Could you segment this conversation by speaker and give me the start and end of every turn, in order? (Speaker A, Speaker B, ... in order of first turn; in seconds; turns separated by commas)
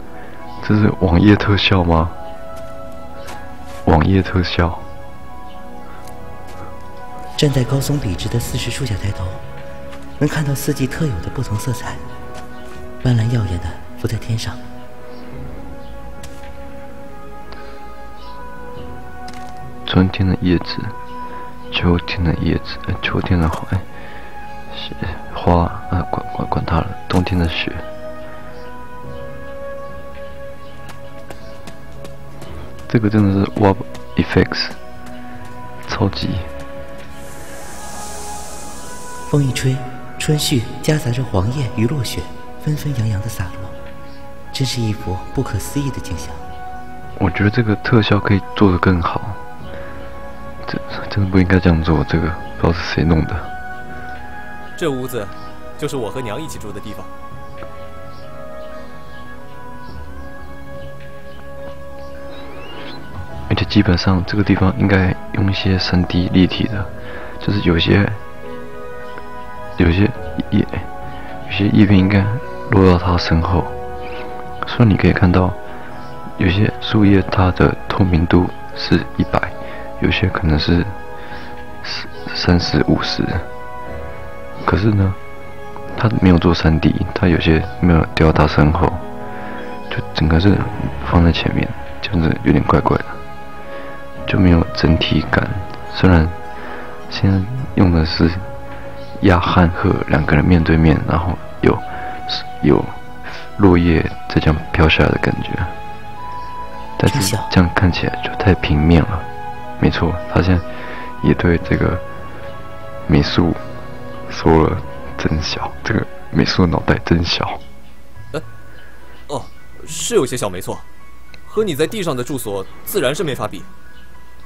Speaker A: 0.6-2.2, Speaker A: 3.9-4.9, Speaker B: 7.4-9.4, Speaker B: 10.2-12.0, Speaker B: 13.0-14.6, Speaker A: 19.9-21.0, Speaker A: 21.7-23.9, Speaker A: 24.7-27.9, Speaker A: 32.9-34.8, Speaker A: 35.9-36.5, Speaker B: 39.3-43.7, Speaker B: 44.5-46.4, Speaker A: 47.2-49.4, Speaker A: 50.6-53.5, Speaker C: 54.8-57.1, Speaker A: 63.5-68.2, Speaker A: 69.8-70.9, Speaker A: 71.5-73.8, Speaker A: 74.6-75.6, Speaker A: 76.4-81.0, Speaker A: 81.8-83.5, Speaker A: 84.6-85.2, Speaker A: 85.9-89.0, Speaker A: 89.9-93.2, Speaker A: 94.2-96.4, Speaker A: 97.1-98.5, Speaker A: 99.2-105.7, Speaker A: 107.0-109.3, Speaker B: 107.1-107.5, Speaker A: 109.8-110.7, Speaker A: 111.2-112.0, Speaker A: 113.1-113.6, Speaker A: 114.3-117.6, Speaker C: 119.3-120.8, Speaker C: 121.5-123.7